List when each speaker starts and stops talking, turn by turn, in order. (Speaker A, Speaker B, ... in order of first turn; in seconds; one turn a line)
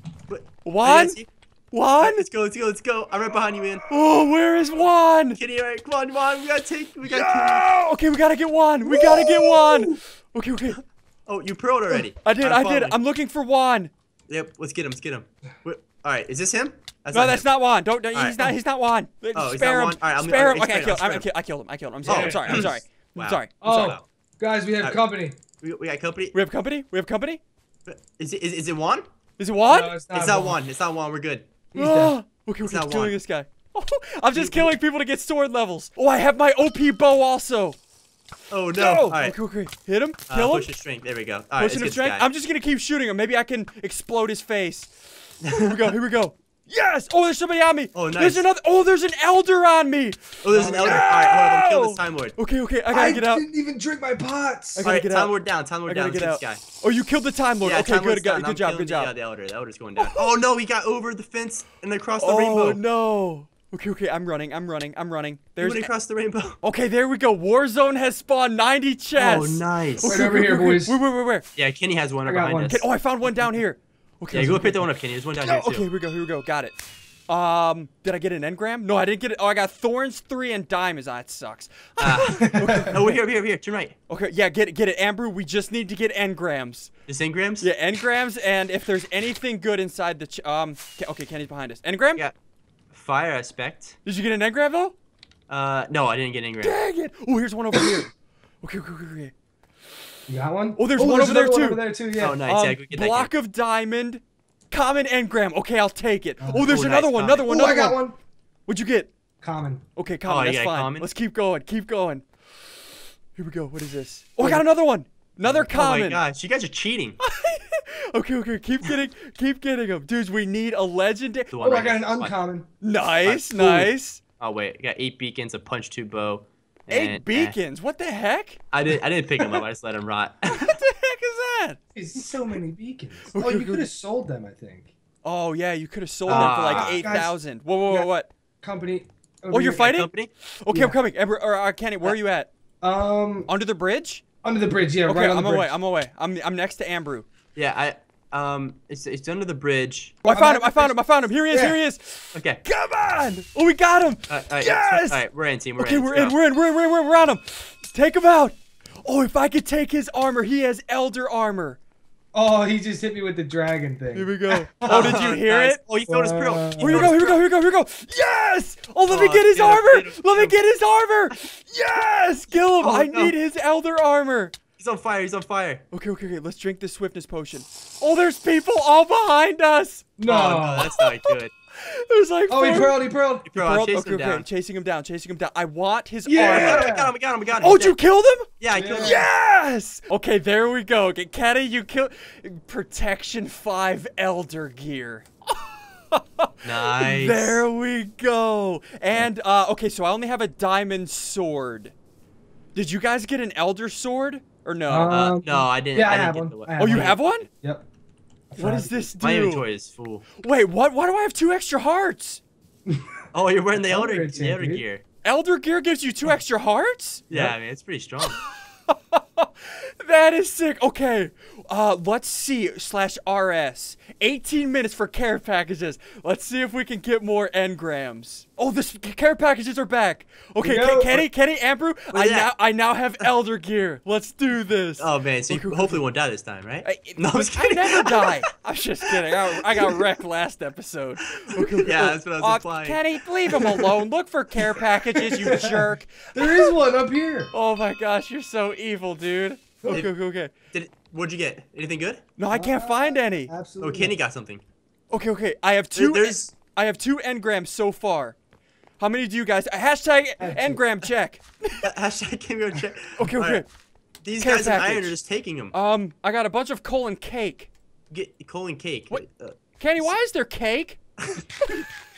Speaker A: 0.3-1.3
Speaker B: 0.6-1.2
Speaker B: 1.7-2.2
Speaker A: 2.0-3.9
Speaker B: 3.9-5.4
Speaker A: 5.3-7.8
Speaker B: 7.1-10.8
Speaker C: 8.8-10.0
Speaker A: 11.3-13.0
Speaker B: 12.2-13.9
Speaker A: 14.3-17.5
Speaker B: 17.1-23.5
Speaker A: 18.1-18.6
Speaker A: 19.4-21.3
Speaker C: 22.0-22.8
Speaker A: 22.1-24.1
Speaker C: 23.6-25.4
Speaker A: 24.8-25.1
Speaker A: 25.6-26.4
Speaker B: 26.3-27.4
Speaker A: 27.9-29.1
Speaker B: 29.4-30.0
Speaker C: 29.7-30.6
Speaker A: 30.1-31.5
Speaker C: 31.7-32.2
Speaker B: 31.8-37.8
Speaker A: 32.6-33.2
Speaker A: 34.3-34.7
Speaker A: 38.5-39.4
Speaker B: 38.8-40.7
Speaker A: 40.3-42.3
Speaker B: 41.6-53.5
Speaker A: 47.9-48.5
Speaker A: 50.4-52.4
Speaker C: 50.5-51.1
Speaker C: 52.9-54.9
Speaker B: 54.8-59.1
Speaker A: 54.8-56.6
Speaker A: 57.6-62.8
Speaker B: 60.0-60.3
Speaker B: 62.2-65.9
Speaker A: 65.6-66.6
Speaker B: 66.6-71.5
Speaker A: 69.2-70.3
Speaker C: 70.1-71.0
Speaker A: 71.6-72.8
Speaker C: 72.2-72.8
Speaker B: 72.7-74.9
Speaker A: 74.3-75.8
Speaker B: 75.4-76.8
Speaker B: 77.3-83.2
Speaker A: 82.0-84.0
Speaker C: 82.4-83.0
Speaker B: 84.1-86.9
Speaker A: 87.1-87.7
Speaker B: 87.6-92.2
Speaker A: 92.9-94.0
Speaker B: 94.0-95.0
Speaker A: 95.5-96.8
Speaker B: 96.6-99.3
Speaker C: 100.3-102.4
Speaker B: 100.8-101.8
Speaker A: 102.2-103.3
Speaker B: 102.5-108.0
Speaker C: 106.4-106.8
Speaker A: 106.6-107.6
Speaker C: 107.5-108.2
Speaker B: 108.7-109.1
Speaker C: 109.4-109.8
Speaker B: 110.0-112.3
Speaker A: 110.2-111.1
Speaker B: 113.4-116.2
Speaker A: 115.4-117.2
Speaker B: 117.2-121.5
Speaker A: 121.5-122.3
Speaker C: 121.6-122.7
Speaker B: 122.8-124.2
Speaker A: 123.2-127.6
Speaker B: 126.9-128.6
Speaker A: 128.7-130.8
Speaker B: 130.5-131.8
Speaker C: 131.9-134.9
Speaker B: 133.3-133.9
Speaker B: 135.2-138.3
Speaker A: 136.3-137.1
Speaker C: 136.3-137.4
Speaker C: 138.6-140.0
Speaker B: 139.5-142.5
Speaker A: 139.8-140.3
Speaker C: 140.7-141.0
Speaker C: 142.8-143.5
Speaker B: 143.5-144.2
Speaker C: 144.4-145.7
Speaker B: 145.1-147.3
Speaker A: 147.6-150.2
Speaker C: 150.2-151.8
Speaker B: 150.3-155.2
Speaker A: 152.3-152.6
Speaker A: 154.3-156.4
Speaker B: 155.8-161.8
Speaker C: 162.3-165.3
Speaker B: 164.1-165.8
Speaker A: 164.9-167.4
Speaker C: 166.1-167.1
Speaker B: 166.8-174.6
Speaker A: 169.1-170.6
Speaker A: 172.8-173.4
Speaker A: 174.8-175.8
Speaker B: 175.9-180.1
Speaker C: 180.2-180.9
Speaker A: 180.2-181.5
Speaker B: 180.8-186.9
Speaker C: 182.5-183.5
Speaker A: 183.4-184.5
Speaker C: 186.3-187.1
Speaker A: 186.4-188.0
Speaker B: 187.6-201.9
Speaker A: 188.6-189.3
Speaker C: 188.7-189.3
Speaker A: 196.6-197.7
Speaker B: 202.8-205.2
Speaker C: 204.9-207.9
Speaker A: 205.1-207.5
Speaker B: 206.8-207.5
Speaker C: 208.5-209.1
Speaker B: 208.6-209.7
Speaker A: 209.2-210.3
Speaker B: 210.4-212.4
Speaker A: 213.3-215.0
Speaker C: 213.7-214.8
Speaker B: 215.2-217.3
Speaker A: 217.3-218.4
Speaker B: 218.9-236.0
Speaker C: 230.6-231.3
Speaker A: 232.1-232.6
Speaker A: 235.0-238.4
Speaker B: 236.8-246.7
Speaker A: 239.7-240.0
Speaker A: 241.5-243.9
Speaker C: 245.3-247.5
Speaker B: 247.5-250.5
Speaker A: 250.7-252.2
Speaker B: 252.4-253.5
Speaker C: 252.5-254.2
Speaker A: 253.8-254.6
Speaker B: 255.1-258.4
Speaker A: 255.9-256.6
Speaker B: 259.0-261.9
Speaker C: 260.4-260.8
Speaker A: 261.8-263.6
Speaker B: 263.2-263.7
Speaker A: 264.2-265.7
Speaker B: 264.4-265.2
Speaker B: 265.7-267.7
Speaker A: 268.1-270.1
Speaker B: 269.8-271.0
Speaker B: 271.6-271.9